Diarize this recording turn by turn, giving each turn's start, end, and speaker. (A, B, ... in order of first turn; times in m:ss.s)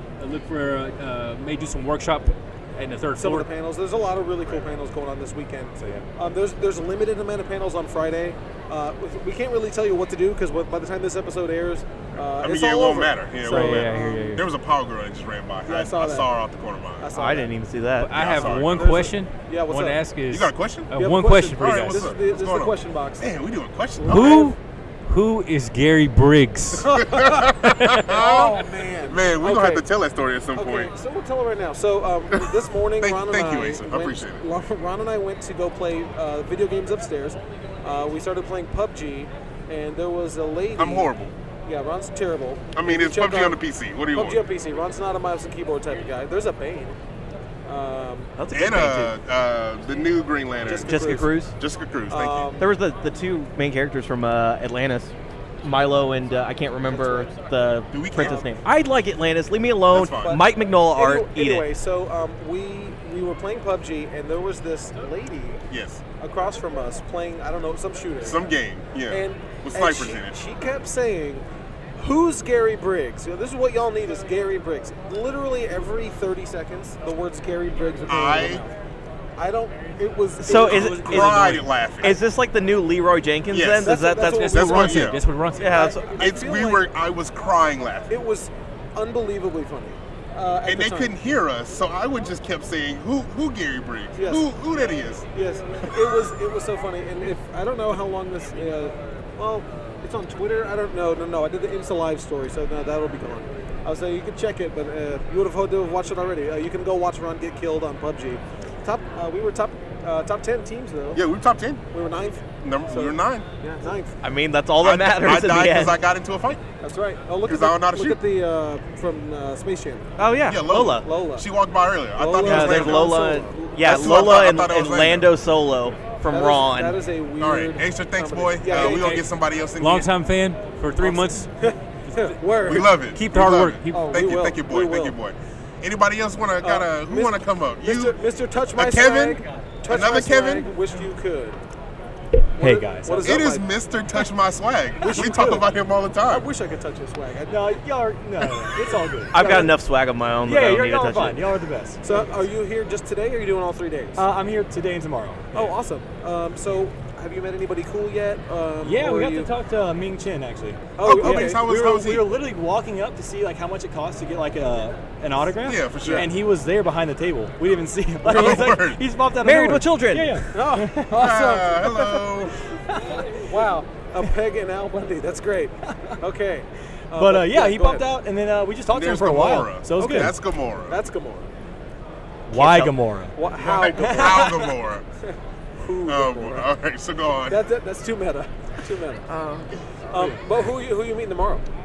0:00.2-0:03.5 A
0:03.2-0:14.4 B
0:12.4-0:17.1 C
0:13.5-0:14.4 A
0:15.7-0:16.3 B
0:17.0-0:17.5 B
0:17.1-0:18.1 D
0:18.0-0:22.1 A
0:18.1-0:19.1 C
0:18.4-0:20.0 B
0:20.3-0:20.9 C
0:20.9-0:23.3 B
0:21.5-0:24.5 C
0:24.0-0:24.5 B
0:24.1-0:26.9 A
0:26.8-0:29.8 B
0:26.9-0:30.9 C
0:27.7-0:28.5 A
0:30.6-0:41.1 B
0:32.3-0:34.4 C
0:40.8-0:41.3 C
0:41.7-0:43.6 B
0:42.8-0:44.4 C
0:44.2-0:47.0 B
0:47.7-0:48.3 B
0:48.4-0:49.1 D
0:48.5-0:52.5 C
0:50.7-0:51.3 B
0:50.8-0:51.6 D
0:52.1-0:52.7 B
0:52.6-0:55.1 D
0:55.6-1:01.7 D
0:56.9-0:57.3 B
0:57.9-0:58.4 C
0:58.2-0:58.5 B
0:59.9-1:00.4 C
1:00.2-1:05.6 B
1:05.7-1:06.0 C
1:06.2-1:08.4 B
1:08.2-1:10.4 C
1:09.1-1:11.4 B
1:12.0-1:18.7 B
1:18.1-1:18.6 C
1:19.4-1:21.4 B
1:20.4-1:26.2 D
1:20.6-1:21.7 A
1:20.8-1:22.2 C
1:23.5-1:24.0 C
1:23.8-1:26.8 B
1:24.2-1:25.9 A
1:24.5-1:25.2 C
1:26.2-1:28.1 C
1:28.1-1:31.1 B
1:30.6-1:35.3 C
1:34.2-1:34.4 B
1:35.3-1:51.2 B
1:51.2-1:51.8 C
1:51.9-1:54.1 B
1:52.6-1:53.5 C
1:54.2-1:56.0 D
1:54.8-1:56.6 C
1:56.8-2:00.1 B
1:57.4-1:58.2 C
2:00.2-2:01.1 D
2:00.5-2:03.2 C
2:00.9-2:01.5 B
2:02.2-2:04.4 B
2:02.4-2:07.0 D
2:03.8-2:05.3 C
2:06.3-2:09.2 B
2:07.4-2:10.1 C
2:08.8-2:09.3 A
2:09.8-2:11.5 A
2:11.0-2:13.0 B
2:12.1-2:14.2 A
2:12.6-2:18.2 C
2:13.9-2:15.2 B
2:16.6-2:21.6 B
2:18.8-2:20.7 C
2:22.6-2:23.4 E
2:22.6-2:23.7 B
2:23.2-2:26.5 C
2:25.0-2:25.7 B
2:26.3-2:27.8 B
2:27.5-2:29.7 E
2:28.8-2:29.7 B
2:29.3-2:31.4 D
2:30.4-2:32.3 E
2:32.0-2:34.2 B
2:34.2-2:35.7 E
2:35.5-2:39.5 B
2:38.8-2:51.3 E
2:41.0-2:41.9 B
2:41.0-2:42.3 C
2:45.6-2:46.3 C
2:46.0-2:46.3 B
2:48.2-2:49.0 C
2:49.4-2:50.4 D
2:50.5-2:52.2 B
2:51.1-2:52.6 C
2:52.9-2:53.2 E
2:53.4-2:58.1 B
2:57.2-3:00.4 E
2:58.9-3:01.0 C
3:00.0-3:00.4 B
3:00.9-3:01.5 B
3:02.5-3:03.3 E
3:02.6-3:02.9 D
3:03.3-3:04.7 B
3:03.6-3:05.0 C
3:04.0-3:04.6 E
3:05.3-3:06.7 B
3:06.1-3:07.6 C
3:07.5-3:09.3 B
3:10.1-3:11.6 B
3:10.1-3:10.4 E